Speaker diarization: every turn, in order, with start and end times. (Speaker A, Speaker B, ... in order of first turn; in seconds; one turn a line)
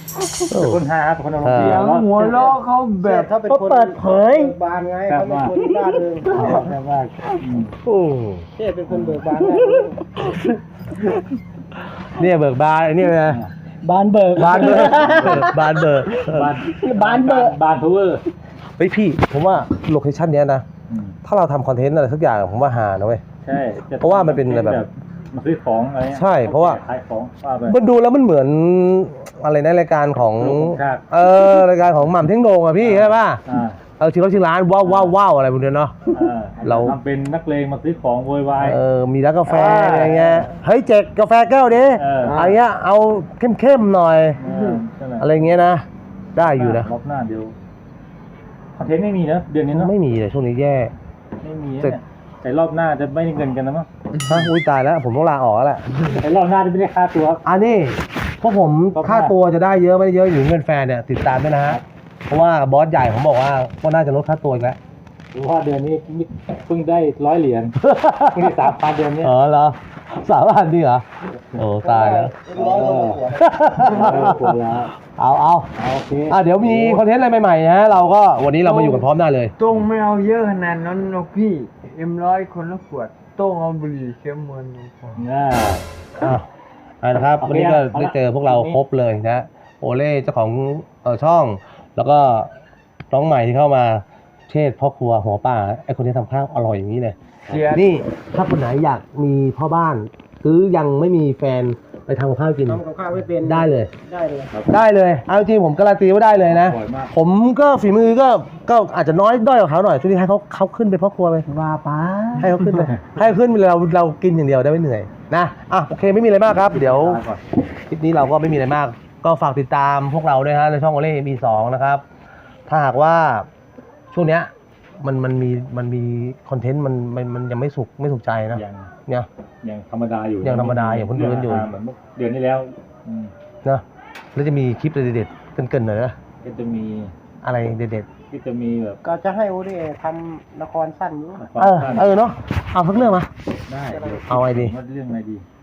Speaker A: 0.5-0.8
Speaker B: 0.5-2.5
Speaker A: 1.4-1.8
Speaker C: 1.5-3.3
Speaker D: 3.0-6.5
Speaker E: 3.5-4.5
Speaker B: 5.1-5.6
Speaker B: 6.3-7.8
Speaker E: 6.4-6.7
Speaker A: 7.8-8.5
Speaker D: 8.6-10.3
Speaker B: 8.9-9.3
Speaker A: 12.1-13.4
Speaker E: 13.8-15.9
Speaker A: 14.4-16.6
Speaker B: 14.6-15.5
Speaker B: 16.2-18.2
Speaker E: 16.7-17.6
Speaker A: 18.8-20.6
Speaker B: 20.9-21.2
Speaker A: 21.2-23.2
Speaker B: 23.4-27.8
Speaker A: 24.0-24.8
Speaker A: 26.1-26.8
Speaker A: 27.7-33.4
Speaker B: 30.4-31.0
Speaker B: 32.8-33.8
Speaker A: 34.0-36.0
Speaker B: 34.8-35.2
Speaker B: 36.1-38.8
Speaker A: 36.6-37.0
Speaker A: 38.6-44.4
Speaker C: 39.4-40.4
Speaker B: 39.9-40.5
Speaker B: 42.0-42.3
Speaker C: 42.2-42.6
Speaker B: 44.4-45.6
Speaker C: 44.5-44.8
Speaker A: 45.2-46.9
Speaker B: 46.4-47.5
Speaker B: 48.8-49.9
Speaker A: 49.7-50.9
Speaker B: 51.4-53.9
Speaker C: 54.1-54.5
Speaker A: 54.3-56.1
Speaker B: 56.2-57.4
Speaker A: 57.5-64.8
Speaker B: 59.0-59.3
Speaker B: 65.3-67.8
Speaker A: 67.8-68.6
Speaker B: 68.3-69.3
Speaker A: 69.2-75.7
Speaker D: 71.8-73.2
Speaker B: 72.5-73.3
Speaker C: 73.8-74.5
Speaker B: 73.9-74.9
Speaker B: 75.8-77.0
Speaker A: 76.3-79.5
Speaker C: 78.6-85.2
Speaker B: 85.2-85.9
Speaker A: 86.2-86.5
Speaker A: 87.0-92.5
Speaker B: 87.4-88.8
Speaker A: 93.1-97.2
Speaker C: 97.5-98.0
Speaker A: 97.7-102.8
Speaker D: 102.7-104.5
Speaker A: 103.4-103.9
Speaker A: 104.7-111.5
Speaker B: 106.4-107.1
Speaker E: 111.5-112.5
Speaker A: 112.4-117.2
Speaker B: 116.6-117.4
Speaker A: 117.9-122.0
Speaker A: 122.7-123.5
Speaker A: 124.1-124.5
Speaker A: 125.0-129.3
Speaker B: 128.5-128.9
Speaker B: 129.6-133.3
Speaker A: 130.4-131.7
Speaker A: 134.3-136.2
Speaker B: 136.4-137.1
Speaker A: 137.4-138.1
Speaker B: 138.3-139.0
Speaker D: 139.0-141.4
Speaker B: 141.4-142.3
Speaker A: 141.6-143.3
Speaker B: 143.7-145.4
Speaker D: 143.9-144.3
Speaker A: 144.3-144.8